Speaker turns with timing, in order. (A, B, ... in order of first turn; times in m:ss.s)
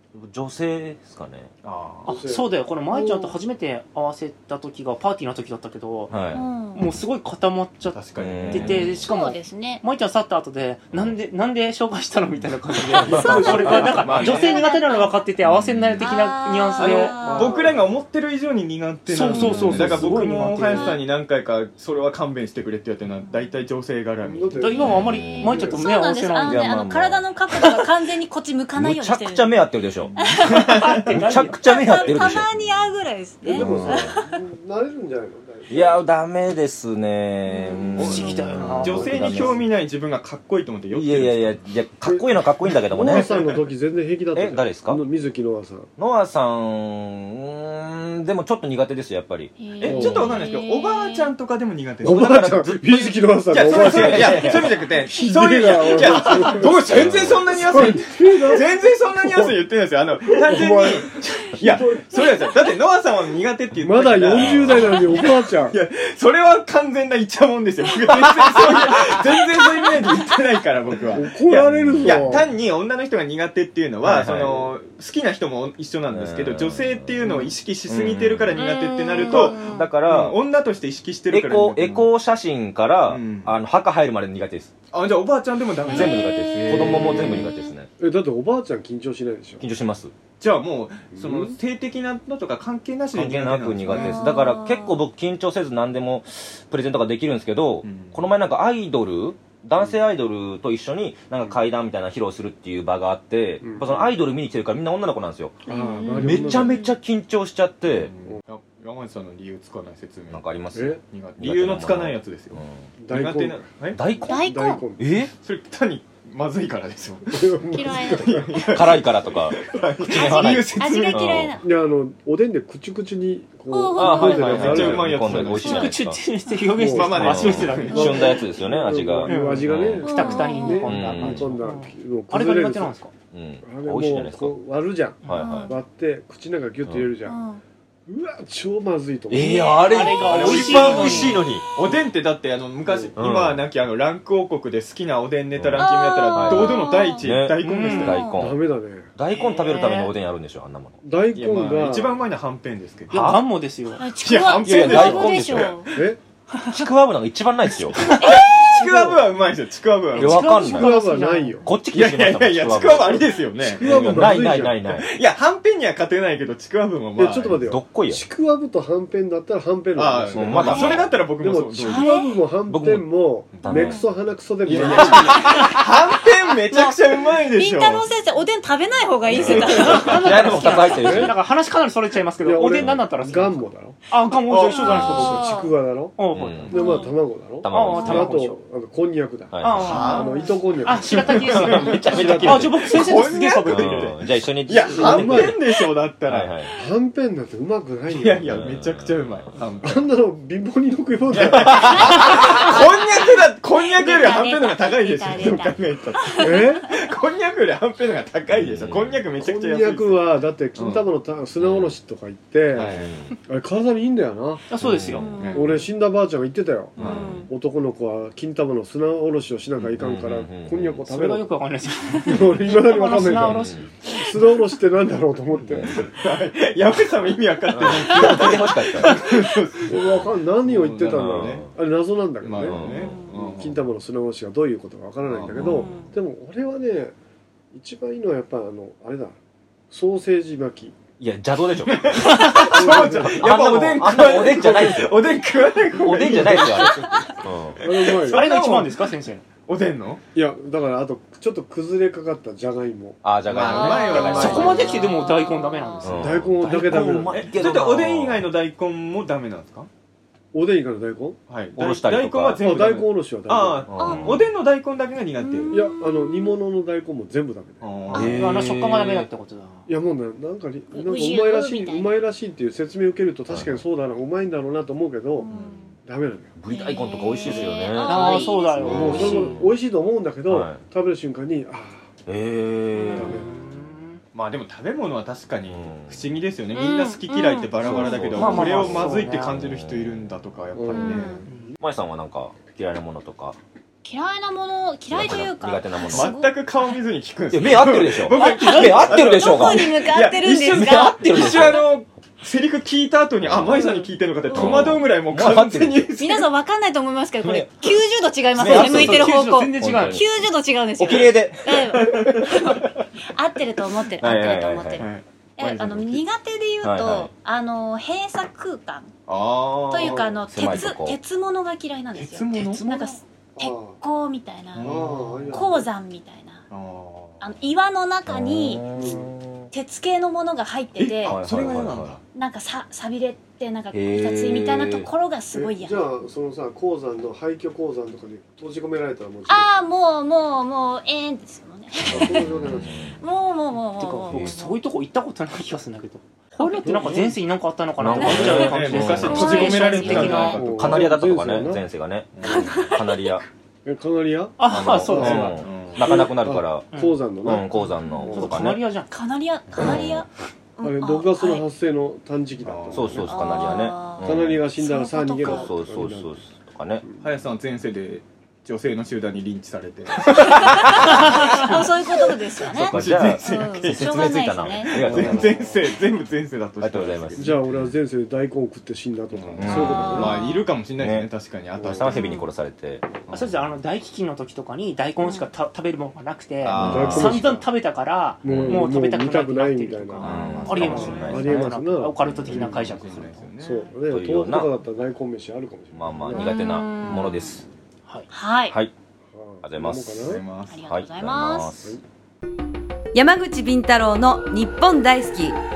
0:00.1-0:01.5 A
0:01.6-0:02.2 B
0:02.1-0:03.4 C
0:02.1-0:06.2 D
0:06.1-0:06.5 A
0:06.3-0:06.9 E
0:06.7-0:17.3 D
0:07.9-0:09.0 B
0:08.2-0:09.0 A
0:09.1-0:09.8 E
0:13.0-0:14.6 B
0:13.2-0:13.8 A
0:13.3-0:13.8 C
0:14.1-0:15.2 E
0:15.5-0:16.1 A
0:16.0-0:17.6 E
0:16.8-0:24.6 B
0:17.2-0:17.8 C
0:19.1-0:21.0 D
0:19.3-0:20.1 A
0:20.7-0:21.0 E
0:24.2-0:25.8 C
0:24.5-0:26.7 D
0:24.8-0:29.7 E
0:24.9-0:25.4 A
0:26.4-0:27.8 A
0:28.8-0:30.2 A
0:30.0-0:31.1 B
0:30.2-0:31.0 E
0:30.6-0:32.2 D
0:31.1-0:32.6 A
0:31.6-0:34.3 E
0:33.5-0:34.1 A
0:33.5-0:36.0 C
0:35.7-0:39.7 A
0:37.5-0:38.3 E
0:38.0-0:41.6 B
0:38.0-0:39.6 D
0:40.9-0:43.3 A
0:42.0-0:45.9 C
0:43.0-0:43.6 B
0:44.4-0:45.0 A
0:46.0-0:50.4 A
0:49.6-0:51.3 E
0:49.8-0:52.3 B
0:49.9-0:50.3 C
0:52.0-0:54.8 A
0:52.0-0:59.6 C
0:53.5-1:22.1 B
0:56.9-0:57.6 A
1:00.3-1:02.2 C
1:03.8-1:05.8 C
1:04.4-1:05.2 A
1:08.6-1:10.3 E
1:11.1-1:12.5 C
1:11.7-1:12.2 A
1:14.0-1:14.7 A
1:16.1-1:18.6 A
1:18.6-1:19.8 E
1:19.2-1:20.4 A
1:21.3-1:24.7 A
1:23.1-1:23.6 B
1:24.9-1:27.5 B
1:25.8-1:26.7 E
1:25.9-1:27.9 A
1:28.0-1:29.6 C
1:29.6-1:30.1 A
1:30.4-1:34.3 B
1:31.1-1:31.6 C
1:33.1-1:45.6 A
1:33.9-1:35.0 E
1:37.8-1:38.2 B
1:43.6-1:44.0 C
1:45.7-1:46.8 C
1:45.7-1:46.9 E
1:46.2-1:48.1 A
1:47.9-1:50.4 B
1:50.3-1:52.9 A
1:50.7-1:51.0 C
1:51.1-1:54.0 B
1:53.0-1:53.6 C
1:53.9-1:54.4 A
1:54.2-1:55.1 C
1:54.3-1:54.8 E
1:55.0-1:55.3 A
1:55.3-2:01.4 B
1:57.3-1:58.6 C
1:57.7-1:58.8 E
1:58.7-2:01.6 A
2:00.1-2:01.6 E
2:01.6-2:05.6 C
2:03.7-2:04.6 E
2:04.0-2:06.2 A
2:04.1-2:05.9 B
2:05.6-2:06.0 E
2:05.7-2:08.4 D
2:06.7-2:13.0 C
2:06.9-2:08.3 B
2:07.2-2:10.1 A
2:09.2-2:13.1 D
2:10.0-2:10.9 E
2:10.8-2:11.5 A
2:13.3-2:14.6 A
2:13.6-2:17.4 C
2:15.2-2:15.7 A
2:15.3-2:15.7 E
2:15.4-2:15.7 D
2:17.3-2:17.6 E
2:18.1-2:19.8 C
2:19.3-2:21.7 A
2:19.7-2:21.4 D
2:19.8-2:20.2 E
2:20.1-2:28.2 B
2:22.9-2:23.1 C
2:23.2-2:23.6 A
2:25.5-2:28.6 A
2:25.8-2:27.3 E
2:27.6-2:28.2 D
2:28.0-2:28.5 E
2:28.4-2:29.1 C
2:29.2-2:31.0 A
2:29.4-2:30.1 E
2:29.6-2:30.1 D
2:31.0-2:32.2 C
2:31.3-2:33.4 B
2:33.1-2:33.4 A
2:33.1-2:34.2 D
2:34.0-2:35.9 E
2:34.2-2:35.9 B
2:34.6-2:35.8 A
2:35.9-2:36.2 C
2:36.6-2:38.1 A
2:38.2-2:39.2 E
2:38.2-2:40.5 B
2:40.2-2:40.9 A
2:40.2-2:40.8 E
2:40.2-2:41.7 D
2:40.6-2:41.7 C
2:41.6-2:45.1 A
2:41.9-2:44.3 B
2:43.7-2:44.8 C
2:44.9-2:47.6 B
2:47.2-2:55.4 C
2:47.5-2:48.2 A
2:50.0-2:52.1 B
2:50.3-2:51.2 A
2:50.7-2:51.0 E
2:51.8-2:52.3 E
2:52.7-2:53.1 A
2:53.6-2:53.8 B
2:53.6-2:54.0 A
2:53.7-2:54.1 E
2:54.7-2:58.1 B
2:54.8-2:55.6 A
2:55.5-2:55.8 E
2:56.7-3:01.1 E
2:59.3-3:01.4 A
2:59.3-3:00.0 B
2:59.9-3:07.0 D
3:01.0-3:01.3 C
3:02.4-3:04.0 C
3:04.5-3:05.4 B
3:04.7-3:05.7 E
3:04.9-3:06.2 C
3:06.3-3:06.8 A
3:06.7-3:12.5 C
3:06.7-3:07.2 E
3:07.6-3:08.3 A
3:07.7-3:08.6 D
3:09.5-3:10.0 A
3:09.6-3:14.1 D
3:09.8-3:10.3 B
3:10.0-3:10.5 E
3:11.1-3:16.5 B
3:11.8-3:12.9 A
3:13.6-3:15.5 A
3:14.9-3:15.6 C
3:16.3-3:16.8 A
3:16.8-3:18.5 C
3:18.1-3:20.0 B
3:18.4-3:19.5 A
3:19.8-3:22.4 C
3:21.3-3:31.1 B
3:22.0-3:27.1 E
3:26.4-3:26.9 C
3:28.5-3:29.2 A
3:29.4-3:32.9 C
3:31.6-3:32.0 A
3:32.7-3:33.2 B
3:32.8-3:33.3 A
3:33.5-3:34.6 C
3:34.7-3:35.4 D
3:34.8-3:35.3 A
3:35.2-3:35.8 E
3:35.3-3:35.8 B
3:35.5-3:37.0 C
3:37.0-3:37.4 B
3:37.0-3:37.5 E
3:37.0-3:37.3 A
3:37.5-3:41.5 C
3:39.8-3:41.0 A
3:41.0-3:43.9 D
3:42.2-3:46.1 C
3:43.3-3:43.9 A
3:45.6-3:46.1 A
3:45.8-3:51.7 B
3:47.7-3:49.3 A
3:47.9-3:48.6 E
3:49.9-3:57.1 C
3:51.1-3:51.7 A
3:52.4-3:53.8 B
3:52.6-3:53.2 A
3:52.8-3:53.3 E
3:55.2-3:55.7 B
3:55.6-3:55.9 A
3:55.6-3:56.1 E
3:57.7-3:59.4 C
3:59.9-4:01.0 C
4:01.2-4:05.2 A
4:01.9-4:10.2 B
4:02.7-4:03.4 C
4:05.9-4:07.8 A
4:06.7-4:07.3 E
4:07.8-4:08.4 C
4:08.2-4:09.5 D
4:10.4-4:13.2 C
4:13.2-4:15.0 A
4:13.5-4:15.1 B
4:13.5-4:16.2 E
4:14.2-4:16.2 D
4:16.0-4:18.5 A
4:16.2-4:17.4 C
4:16.9-4:19.9 B
4:20.5-4:21.4 C
4:21.5-4:25.8 B
4:21.8-4:22.6 A
4:22.6-4:23.9 C
4:23.9-4:24.4 A
4:24.0-4:24.5 E
4:25.4-4:25.9 E
4:25.7-4:27.9 C
4:27.8-4:28.4 B
4:28.1-4:29.3 A
4:28.2-4:29.9 D
4:29.9-4:35.5 C
4:30.9-4:32.2 E
4:33.5-4:33.8 A
4:35.4-4:36.0 E
4:36.1-4:36.5 C
4:36.6-4:39.4 A
4:36.7-4:39.6 E
4:38.0-4:39.7 D
4:38.8-4:42.1 C
4:40.5-4:40.8 A
4:42.3-4:43.5 A
4:42.9-4:43.4 E
4:43.2-4:43.4 C
4:43.3-4:44.2 D
4:44.3-4:51.4 B
4:45.6-4:46.3 A
4:46.7-4:48.3 E
4:47.8-4:50.4 A
4:48.3-4:49.6 D
4:50.8-4:51.4 C
4:50.9-4:51.4 E
4:51.8-4:53.6 A
4:54.0-4:57.0 E
4:55.1-4:56.3 A
4:56.1-5:06.5 B
4:57.5-5:00.0 A
4:58.3-5:01.9 E
5:00.7-5:01.9 A
5:03.4-5:03.9 A
5:03.7-5:05.0 E
5:04.5-5:06.1 A
5:06.2-5:19.1 E
5:07.4-5:08.0 A
5:08.5-5:12.4 A
5:08.6-5:10.2 D
5:11.9-5:12.8 B
5:14.2-5:15.1 A
5:15.0-5:15.2 B
5:15.6-5:16.2 A
5:16.8-5:17.3 A
5:19.3-5:20.9 B
5:19.9-5:26.6 E
5:20.5-5:21.2 A
5:22.2-5:23.1 B
5:23.6-5:24.0 C
5:24.7-5:25.6 B
5:24.8-5:25.9 C
5:26.7-5:27.4 B
5:27.4-5:28.8 E
5:28.3-5:29.7 A
5:28.9-5:29.3 C
5:29.7-5:31.4 E
5:31.0-5:32.2 B
5:31.2-5:32.2 A
5:32.3-5:36.1 E
5:33.9-5:35.1 A
5:35.5-5:39.7 C
5:39.5-5:42.5 E
5:42.1-5:42.9 C
5:42.1-5:43.2 A
5:43.2-5:44.5 E
5:44.0-5:50.9 D
5:44.3-5:44.6 A
5:46.6-5:46.8 E
5:46.8-5:47.4 C
5:48.0-5:53.5 A
5:48.2-5:50.6 E
5:48.2-5:51.1 B
5:50.5-5:51.8 C
5:52.3-5:52.9 B
5:52.4-5:53.4 E
5:53.8-5:55.5 C
5:54.6-5:55.6 D
5:54.7-5:56.9 A
5:54.8-5:56.1 B
5:56.0-5:57.7 C
5:56.9-5:57.2 D
5:57.4-5:58.8 A
5:58.2-5:58.5 C
5:58.3-5:59.1 D
5:59.1-6:01.6 E
5:59.7-6:00.3 A
6:00.8-6:03.4 C
6:02.6-6:03.3 B
6:02.9-6:04.6 A
6:03.3-6:05.7 E
6:04.2-6:06.4 C
6:05.4-6:07.0 A
6:07.2-6:11.8 B
6:10.3-6:15.4 E
6:11.0-6:11.4 A
6:12.7-6:15.7 A
6:12.8-6:14.2 B
6:14.9-6:17.6 B
6:15.2-6:15.8 C
6:16.8-6:17.8 A
6:17.4-6:20.4 C
6:19.3-6:22.3 B
6:19.6-6:20.4 A
6:19.7-6:20.6 E
6:21.0-6:21.3 A
6:21.8-6:22.1 C
6:21.8-6:23.1 A
6:22.0-6:22.5 E
6:23.3-6:23.6 B
6:23.3-6:33.5 D
6:25.2-6:25.5 E
6:26.6-6:27.4 B
6:26.8-6:27.3 A
6:26.8-6:27.6 C
6:28.4-6:32.8 C
6:28.4-6:28.9 A
6:30.2-6:31.7 A
6:30.2-6:31.3 B
6:30.5-6:31.4 E
6:32.4-6:33.9 B
6:33.6-6:36.5 C
6:34.1-6:34.7 A
6:35.9-6:37.6 A
6:36.3-6:37.6 E
6:38.3-6:38.8 E
6:39.3-6:40.4 C
6:39.6-6:42.0 A
6:40.2-6:40.8 B
6:40.7-6:41.9 E
6:43.1-6:45.6 F